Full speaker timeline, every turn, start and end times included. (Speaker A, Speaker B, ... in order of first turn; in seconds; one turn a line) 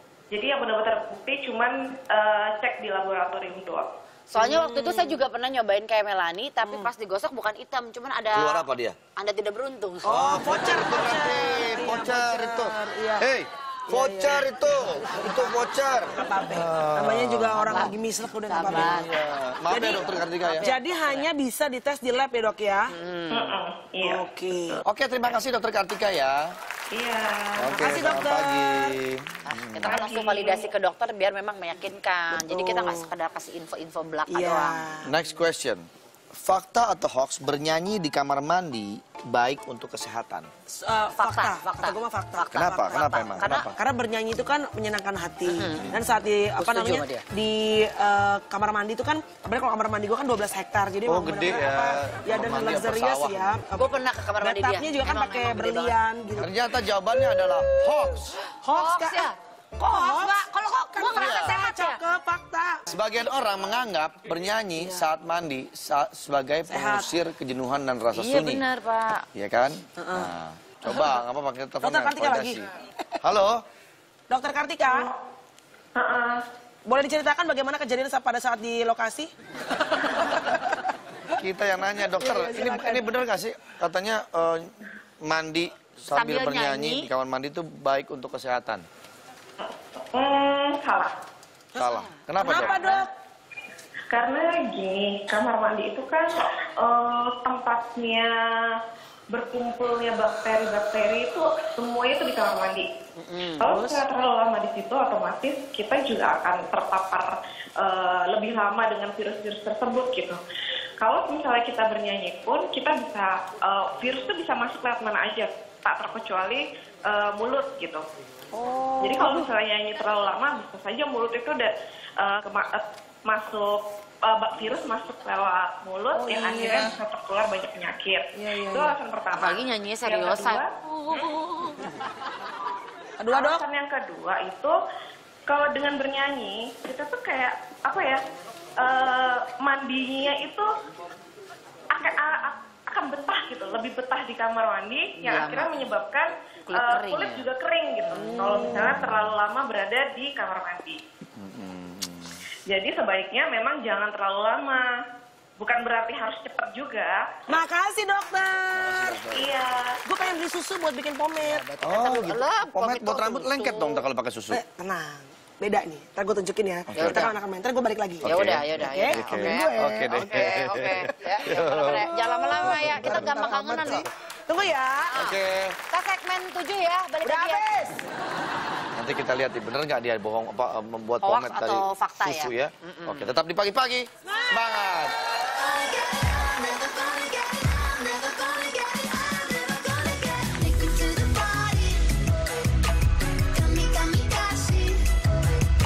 Speaker A: 0.3-3.9
Speaker B: 4.3-10.3
Speaker C: 4.3-5.2
Speaker D: 8.3-9.0
Speaker C: 10.0-13.3
Speaker D: 10.1-17.9
Speaker C: 13.9-14.5
Speaker C: 15.1-19.1
Speaker B: 17.6-19.1
Speaker D: 18.7-20.7
Speaker C: 19.7-22.9
Speaker B: 20.4-21.3
Speaker B: 22.9-23.6
Speaker A: 23.3-24.8
Speaker C: 24.0-24.8
Speaker D: 24.8-26.6
Speaker A: 26.9-28.0
Speaker D: 27.6-30.0
Speaker C: 27.7-28.9
Speaker B: 29.4-34.8
Speaker A: 29.8-30.7
Speaker C: 32.3-33.1
Speaker C: 34.3-35.1
Speaker D: 35.0-40.5
Speaker C: 40.7-56.5
Speaker B: 41.1-43.7
Speaker D: 42.5-43.7
Speaker B: 45.5-45.9
Speaker B: 46.6-47.2
Speaker D: 51.0-53.5
Speaker B: 53.8-56.0
Speaker D: 56.4-58.4
Speaker C: 58.6-62.8
Speaker B: 58.7-62.0
Speaker D: 61.1-61.6
Speaker D: 62.9-68.6
Speaker C: 66.7-67.1
Speaker B: 68.1-69.2
Speaker D: 69.3-72.7
Speaker C: 70.0-70.3
Speaker C: 70.9-71.1
Speaker C: 71.8-72.6
Speaker D: 73.2-73.6
Speaker C: 74.3-75.1
Speaker A: 74.9-75.2
Speaker A: 75.9-76.4
Speaker C: 76.8-79.3
Speaker C: 79.9-80.6
Speaker D: 81.4-88.8
Speaker C: 82.1-83.2
Speaker B: 86.1-87.1
Speaker A: 89.6-91.2
Speaker C: 91.7-93.1
Speaker D: 91.8-92.8
Speaker B: 92.5-93.0
Speaker A: 94.1-98.7
Speaker A: 99.3-102.9
Speaker B: 103.2-104.0
Speaker A: 103.6-110.4
Speaker A: 111.0-118.0
Speaker C: 118.5-119.5
Speaker A: 119.0-130.7
Speaker C: 126.1-127.0
Speaker C: 128.3-129.0
Speaker B: 129.3-131.8
Speaker C: 133.2-133.6
Speaker A: 133.3-134.8
Speaker A: 135.5-138.2
Speaker A: 138.8-140.7
Speaker A: 141.9-151.0
Speaker B: 145.2-145.7
Speaker B: 146.7-147.5
Speaker B: 148.1-148.9
Speaker D: 148.7-149.3
Speaker D: 151.3-152.4
Speaker A: 152.7-155.0
Speaker A: 155.6-157.4
Speaker C: 157.5-159.2
Speaker D: 158.7-159.5
Speaker A: 159.3-160.0
Speaker C: 160.1-161.7
Speaker B: 161.5-164.0
Speaker D: 161.8-164.6
Speaker C: 164.5-170.3
Speaker D: 166.9-167.3
Speaker B: 166.9-167.3
Speaker D: 168.2-172.1
Speaker B: 168.2-174.1
Speaker C: 171.3-171.9
Speaker C: 172.5-175.2
Speaker D: 172.6-174.0
Speaker B: 175.1-177.7
Speaker D: 175.1-175.8
Speaker C: 177.2-178.0
Speaker D: 178.9-185.1
Speaker B: 181.2-183.3
Speaker B: 185.4-192.2
Speaker B: 193.5-195.2